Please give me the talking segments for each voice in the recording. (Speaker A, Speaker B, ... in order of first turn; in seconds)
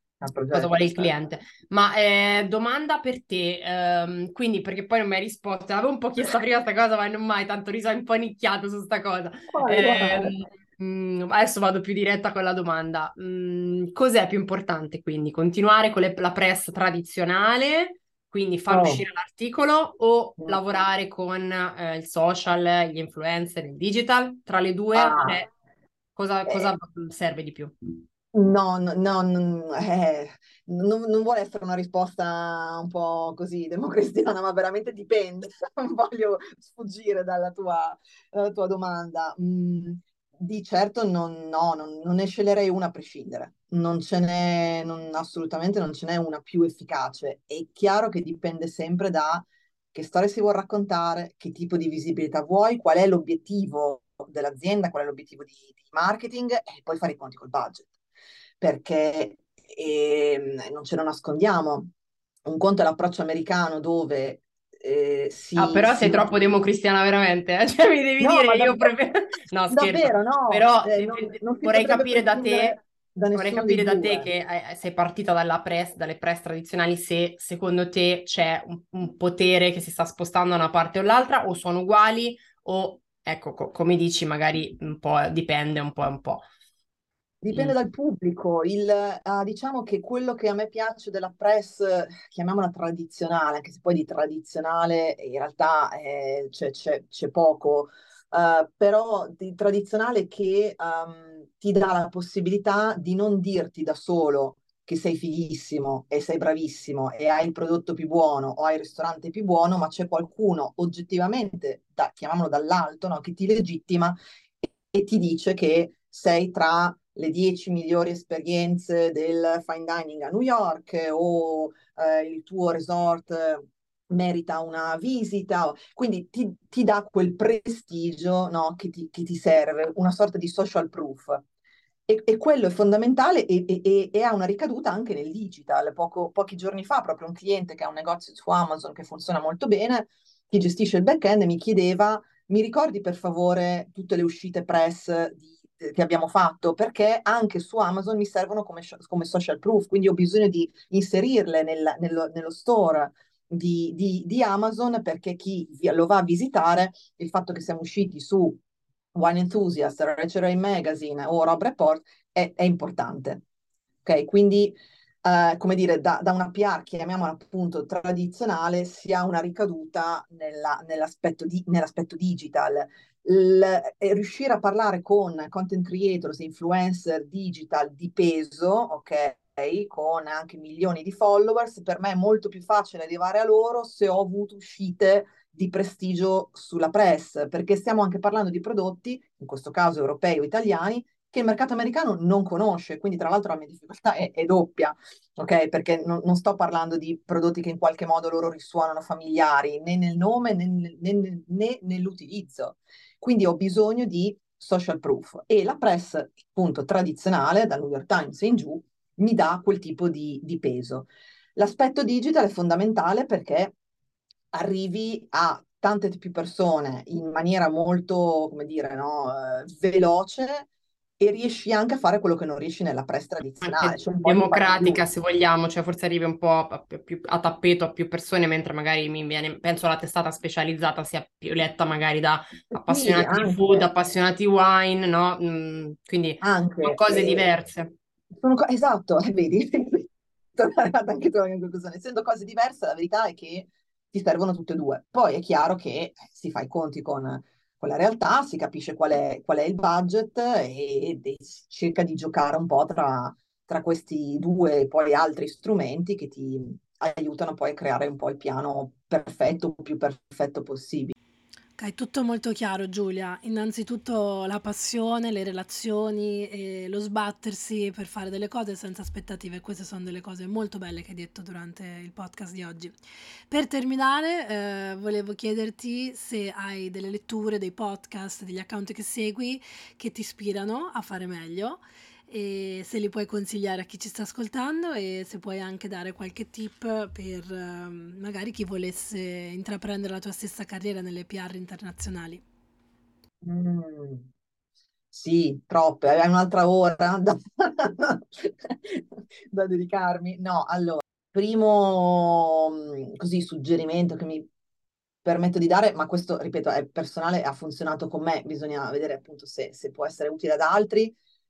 Speaker A: 0.2-1.1, 9.5-10.3, 18.7-19.0, 24.9-25.4, 26.5-26.7, 28.3-57.9, 58.6-61.9, 62.5-66.3, 68.2-69.0, 69.7-74.3, 87.4-131.4, 132.1-158.6, 159.1-163.4, 164.0-213.8, 214.5-225.0, 232.8-233.9, 236.4-237.5, 238.3-261.1, 293.4-294.3, 295.1-304.5, 305.2-311.2
Speaker B: 0.5-25.5, 26.2-27.8, 65.6-72.8, 73.3-86.4, 223.6-237.9
Speaker C: 261.8-272.9, 273.5-292.4